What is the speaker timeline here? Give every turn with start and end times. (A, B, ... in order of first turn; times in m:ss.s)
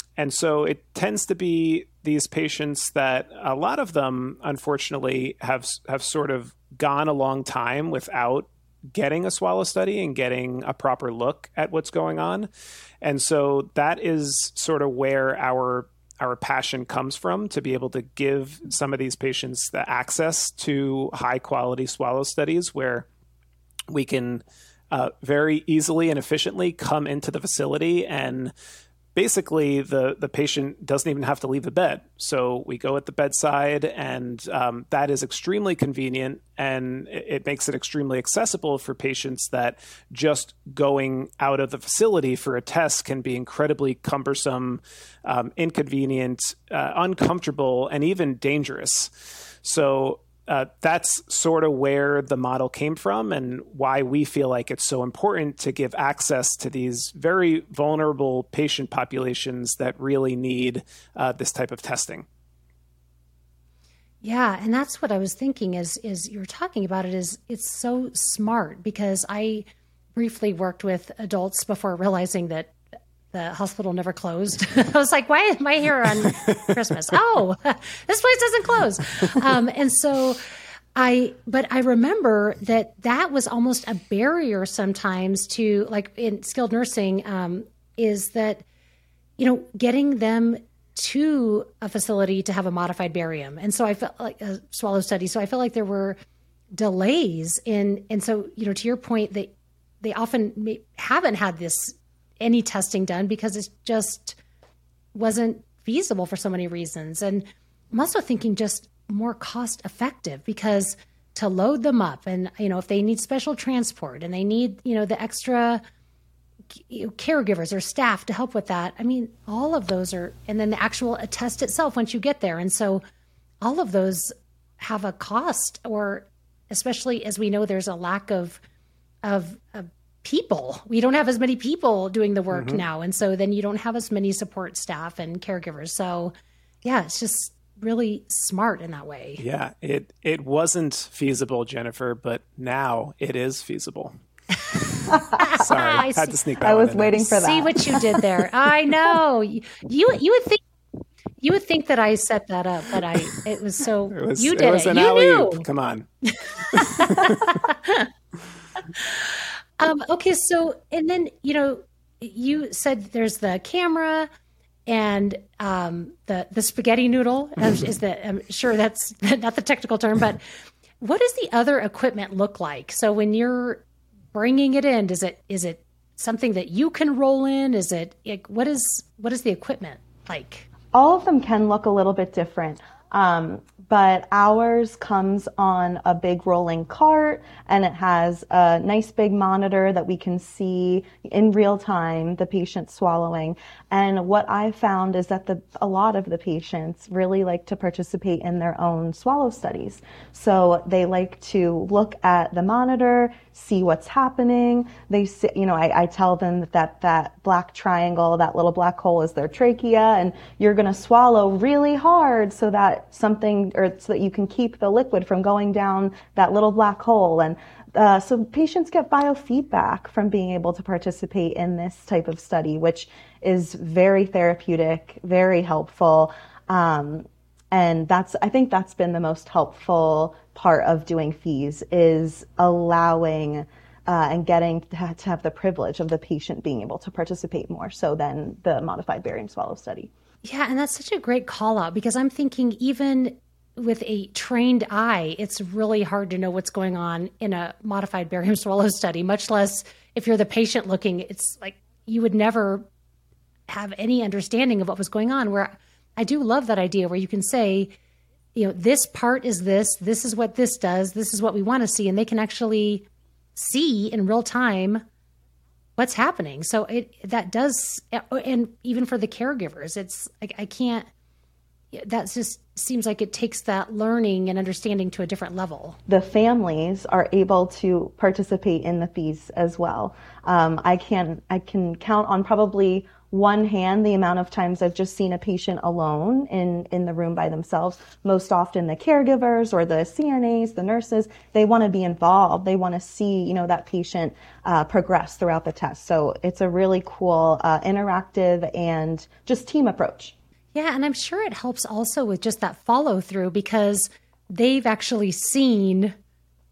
0:00.2-0:12.5 A
0:13.0-0:23.1 A
0:23.9-0:28.5 A
0:29.2-0:49.1 A
0:49.6-1:02.2 A
1:04.2-1:12.8 B
1:13.3-1:20.4 B
1:21.0-1:28.6 B
1:29.4-1:36.2 B
1:36.7-1:44.4 B
1:45.1-1:55.8 B
1:56.8-2:03.0 B
2:03.6-2:08.6 B
2:09.2-2:16.3 B
2:12.5-2:12.8 A
2:16.8-2:19.4 B
2:19.4-2:24.1 A
2:24.7-2:26.4 B
2:24.8-2:27.4 A
2:25.1-2:25.7 C
2:26.6-2:28.2 C
2:27.4-2:30.6 B
2:31.4-2:35.6 B
2:34.1-2:37.6 A
2:36.3-2:38.1 B
2:38.9-2:44.3 B
2:44.9-2:50.4 B
2:51.0-3:00.7 B
3:00.9-4:00.1 C
4:00.4-4:12.9 B
4:13.7-4:17.9 B
4:18.6-4:25.0 B
4:26.0-4:31.1 B
4:31.9-4:36.0 B
4:36.1-5:00.4 C
5:00.7-5:06.2 B